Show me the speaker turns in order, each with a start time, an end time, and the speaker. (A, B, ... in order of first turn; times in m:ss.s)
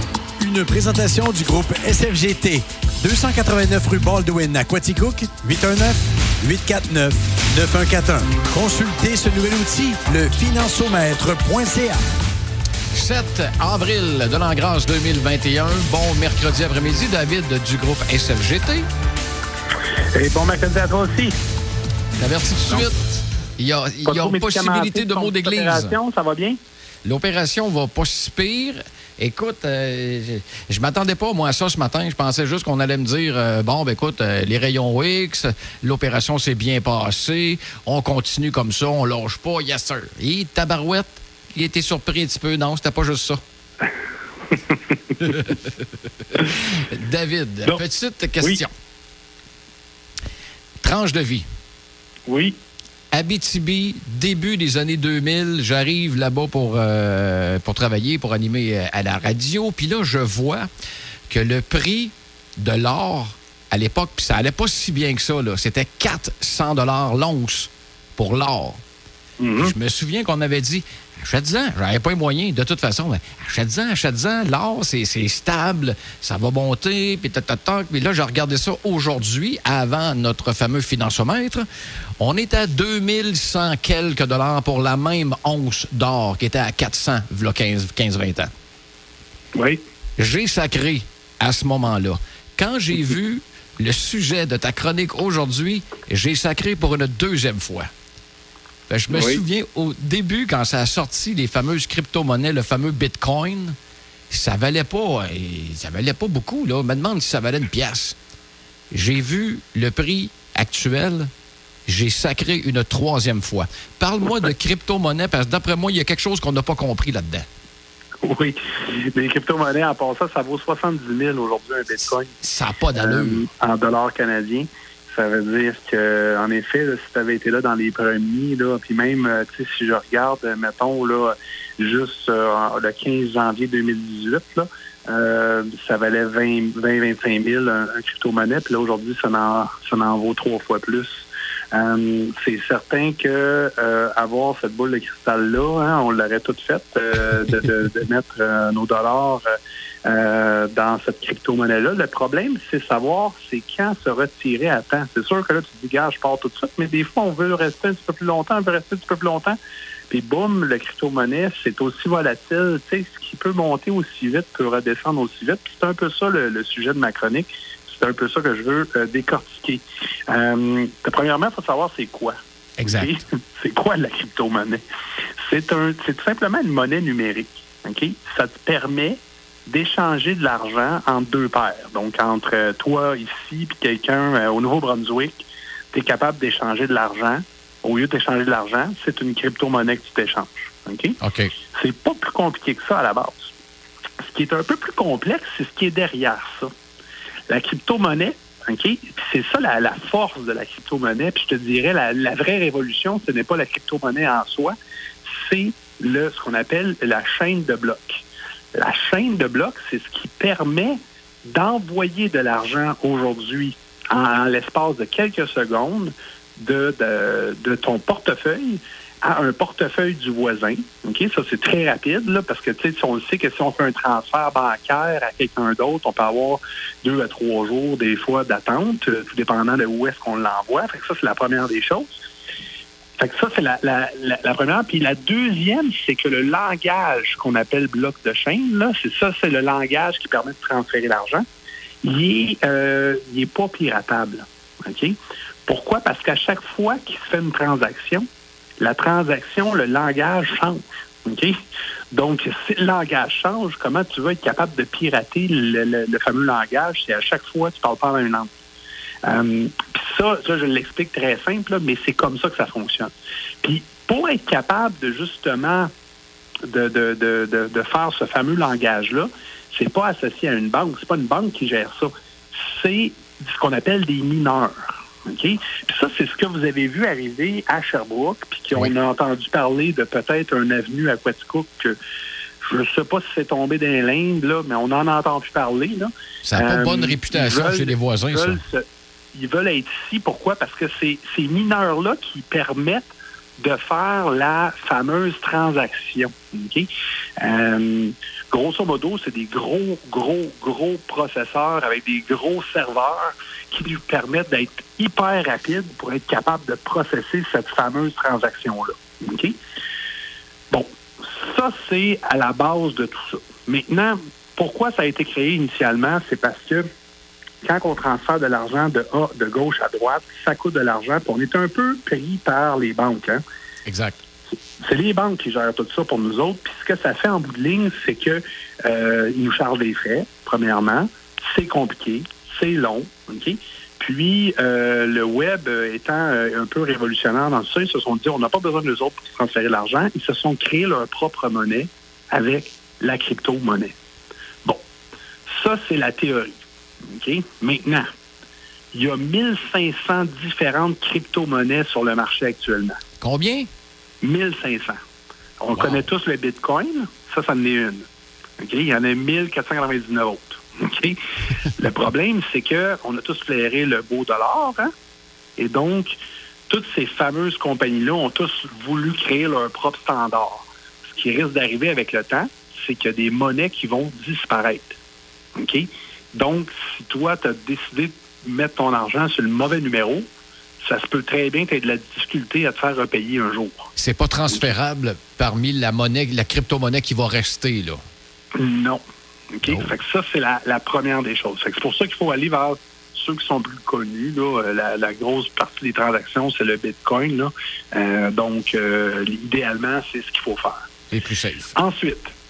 0:00.4-0:12.0 A
0:12.9-0:18.9 B
0:20.1-0:21.3 C
0:22.2-0:26.0 B
0:24.0-0:26.6 C
0:27.0-0:43.4 B
0:44.5-0:45.3 C
0:45.3-0:45.5 B
0:46.6-0:48.7 B
0:50.8-0:51.4 B
0:52.3-0:52.6 C
0:53.1-1:00.7 B
1:01.3-1:08.8 B
1:09.4-1:09.8 C
1:09.6-1:21.7 B
1:22.2-1:28.5 B
1:29.5-1:29.8 C
1:30.2-1:37.9 B
1:38.9-1:43.8 B
1:39.1-1:39.4 C
1:44.3-1:48.2 B
1:48.9-1:51.3 B
1:51.9-1:57.4 B
1:58.2-2:02.3 C
2:02.4-2:03.4 B
2:02.9-2:29.4 C
2:30.0-2:39.6 C
2:40.1-2:54.8 C
2:52.8-2:53.2 B
2:55.4-3:11.2 C
3:11.2-3:11.5 B
3:11.7-3:13.5 C
3:14.2-3:16.7 C
3:17.5-3:52.1 C
3:53.2-4:01.4 C
4:02.0-4:08.2 C
4:08.8-4:18.5 C
4:19.2-4:25.9 C
4:26.6-4:42.0 C
4:42.6-5:09.6 C
4:46.4-4:48.6 B
5:10.7-5:16.8 C
5:17.6-5:23.4 C
5:23.9-5:24.2 B
5:24.8-5:43.9 C
5:45.5-5:48.1 C
5:48.9-5:53.0 C
5:53.2-5:53.7 B
5:54.2-5:55.0 C
5:55.6-5:58.1 C
5:55.8-5:56.0 B
5:58.6-6:01.2 C
6:01.7-6:04.9 C
6:05.6-6:06.2 C
6:06.7-6:15.0 C
6:15.6-6:20.2 C
6:20.8-6:23.9 C
6:24.0-6:28.0 B
6:28.6-6:29.0 C
6:29.6-6:40.8 C
6:29.6-6:29.9 B
6:41.1-6:41.7 B
6:41.8-6:42.3 C